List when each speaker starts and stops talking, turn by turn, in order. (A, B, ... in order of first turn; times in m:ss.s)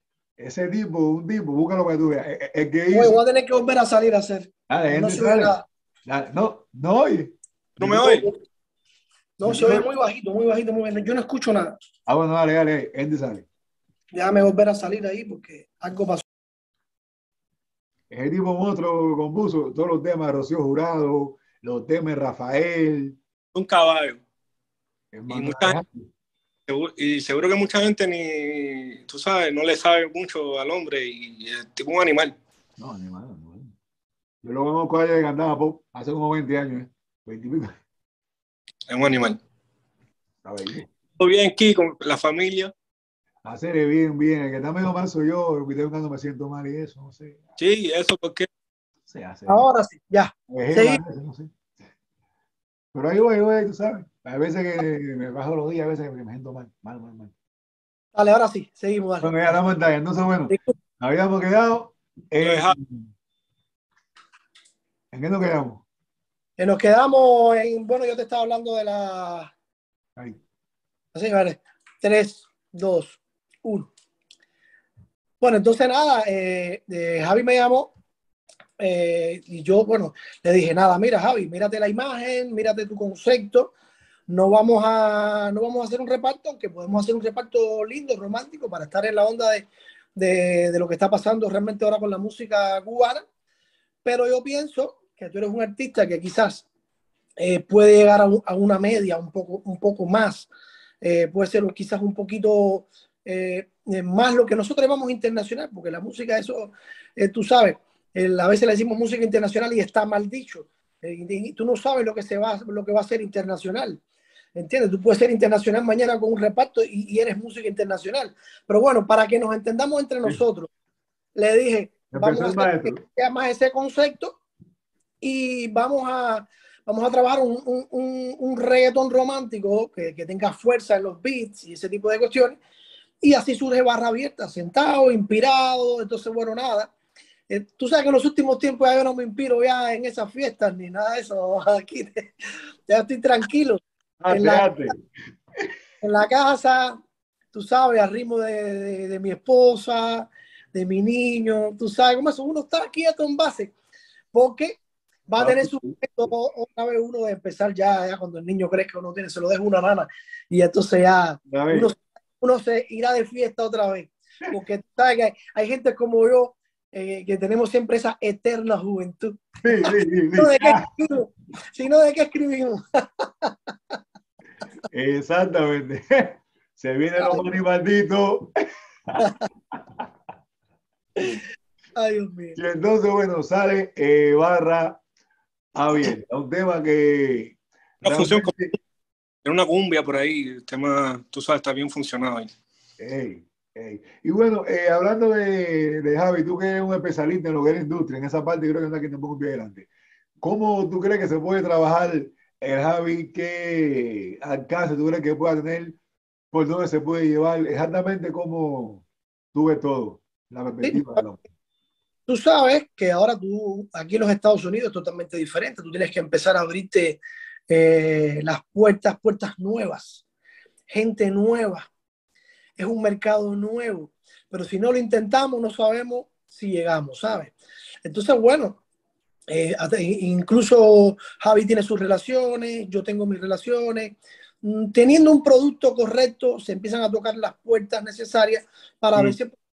0:00.4-0:03.2 A
0:02.9-0:05.6 B
0:04.7-0:08.3 A
0:07.8-0:08.3 C
0:09.4-0:11.7 B
0:09.4-0:09.9 A
0:12.1-0:13.5 A
0:14.1-0:16.2 B
0:18.1-0:23.2 A
0:23.5-0:24.2 C
0:25.1-0:26.0 A
0:25.3-0:25.8 C
0:26.7-0:32.3 C
0:32.8-0:33.7 A
0:34.4-0:37.7 A
0:38.9-0:39.4 C
0:40.4-0:40.8 A
0:41.2-0:42.7 C
0:43.4-0:47.4 A
0:47.6-0:48.5 C
0:49.1-0:49.7 A
0:49.5-0:51.0 B
0:50.5-0:51.5 A
0:52.9-0:57.3 A
0:58.1-0:59.4 B
0:59.2-1:03.1 A
1:02.4-1:02.8 C
1:05.1-1:05.8 A
1:06.6-1:09.5 B
1:11.1-1:13.9 B
1:15.4-1:17.9 B
1:18.8-1:23.7 B
1:24.3-1:33.2 B
1:34.0-1:36.6 B
1:37.4-1:40.5 B
1:41.0-1:54.0 B
1:54.5-2:00.7 B
2:01.4-2:04.4 B
2:02.1-2:03.0 A
2:05.2-2:12.6 B
2:13.2-2:16.9 B
2:17.5-2:22.3 B
2:22.9-2:24.9 B
2:24.2-2:25.0 A
2:26.0-2:27.0 B
2:27.5-2:33.7 B
2:34.3-2:53.5 B
2:35.4-2:36.3 A
2:41.5-2:41.9 A
2:49.6-2:50.9 A
2:54.9-2:58.5 A
2:57.2-2:57.5 B
2:59.2-2:59.5 B
2:59.8-3:00.0 A
3:02.0-3:02.6 B
3:02.6-3:05.0 A
3:05.7-3:08.7 A
3:08.0-3:08.7 C
3:09.4-3:12.5 C
3:13.0-3:19.9 A
3:20.4-3:26.0 A
3:26.5-3:31.4 A
3:32.3-3:40.2 B
3:40.9-3:41.9 B
3:42.8-3:47.5 B
3:48.0-3:48.8 B
3:49.5-3:59.5 B